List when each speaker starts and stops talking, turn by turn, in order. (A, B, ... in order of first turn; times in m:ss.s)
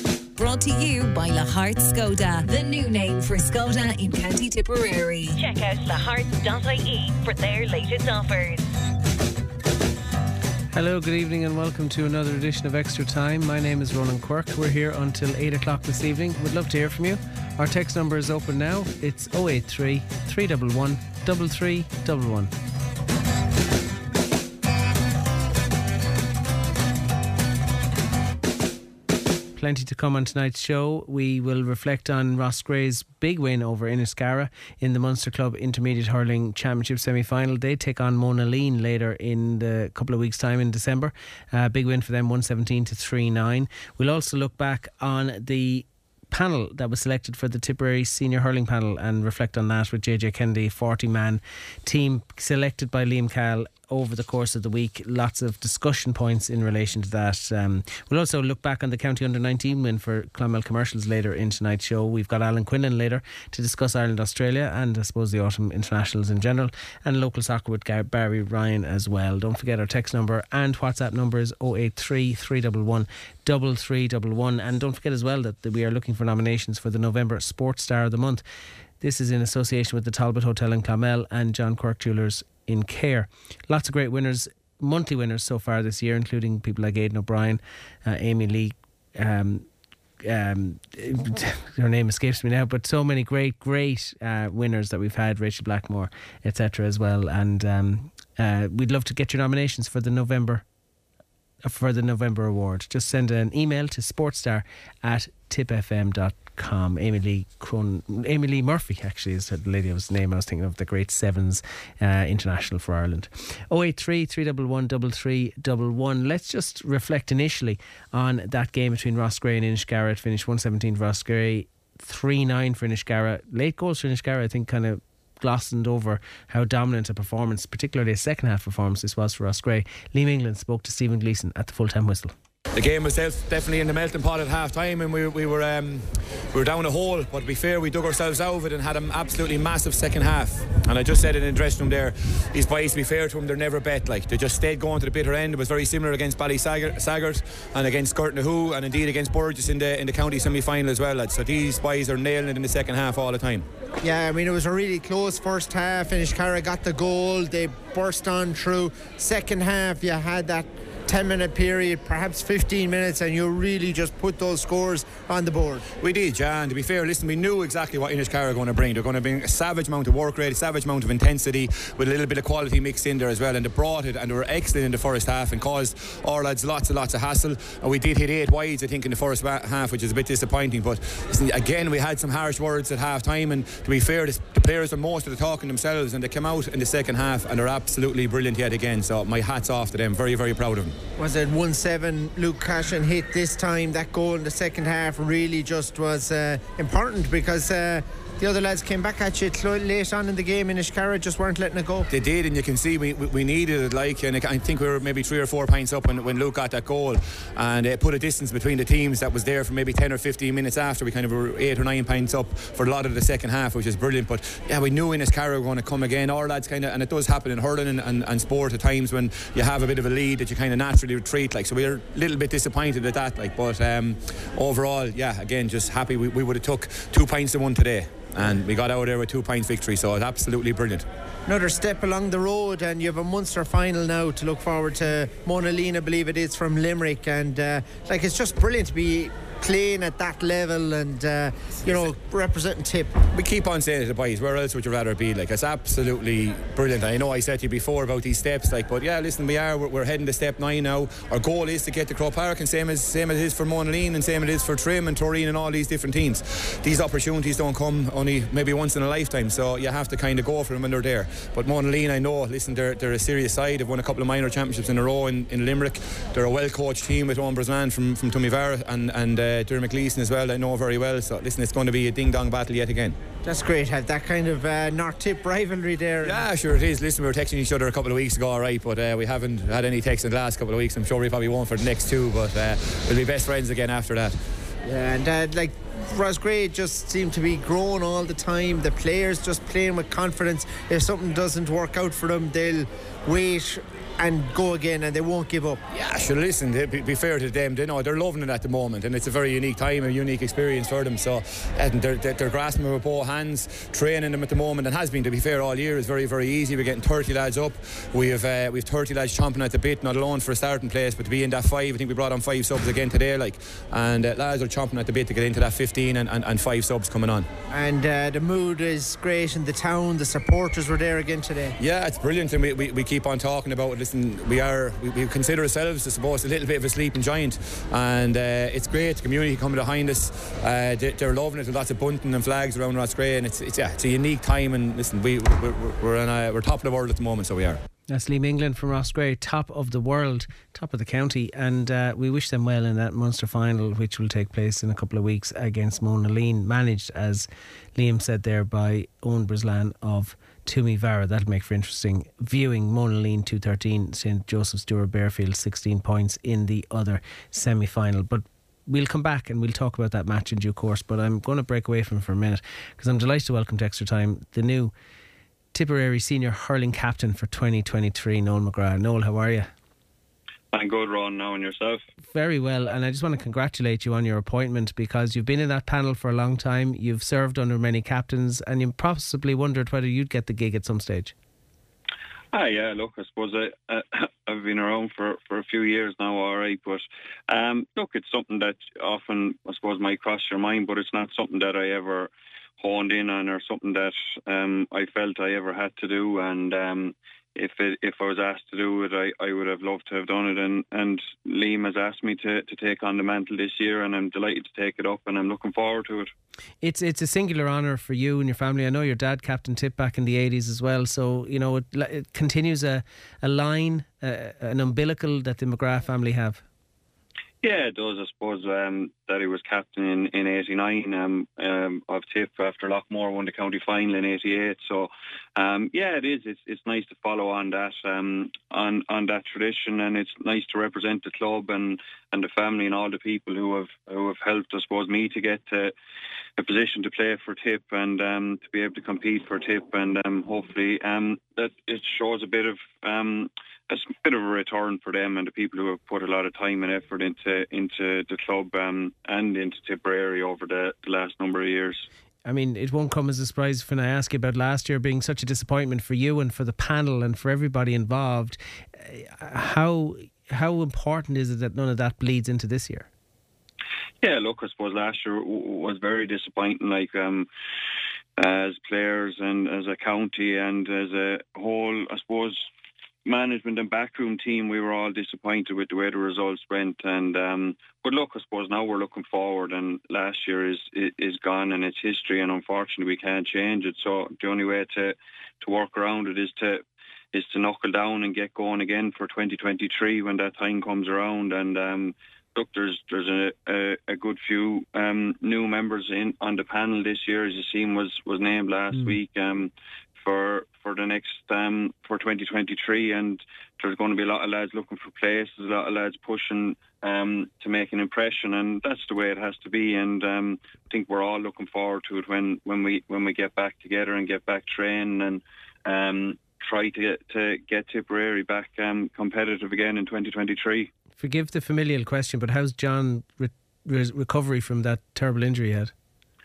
0:00.4-0:05.4 A
0:05.4-0:08.7 B
0:10.7-0:22.5 C
0:29.6-1:18.4 C
1:19.0-1:29.7 C
1:30.2-1:40.6 C
1:41.6-2:12.3 C
2:12.7-2:33.7 D
2:34.0-2:45.9 E
2:46.0-3:11.0 D
3:11.2-3:22.1 E
3:22.1-3:51.1 D
3:51.5-4:03.1 E
4:03.3-4:33.2 D
4:33.4-4:36.4 E
4:36.2-4:44.4 D
4:44.8-4:55.8 E
4:56.0-5:17.5 D
5:17.7-5:21.8 E
5:21.8-5:37.8 D
5:38.1-6:04.9 C
6:05.7-6:09.7 C
6:10.7-6:12.0 F
6:12.3-6:21.3 C
6:22.5-6:46.3 F
6:46.8-6:56.6 C
6:57.6-7:15.9 F
7:16.6-7:32.1 F
7:32.4-7:43.1 C
7:44.2-7:47.5 F
7:48.4-7:52.7 F
7:53.2-8:40.9 F
8:41.2-8:45.9 C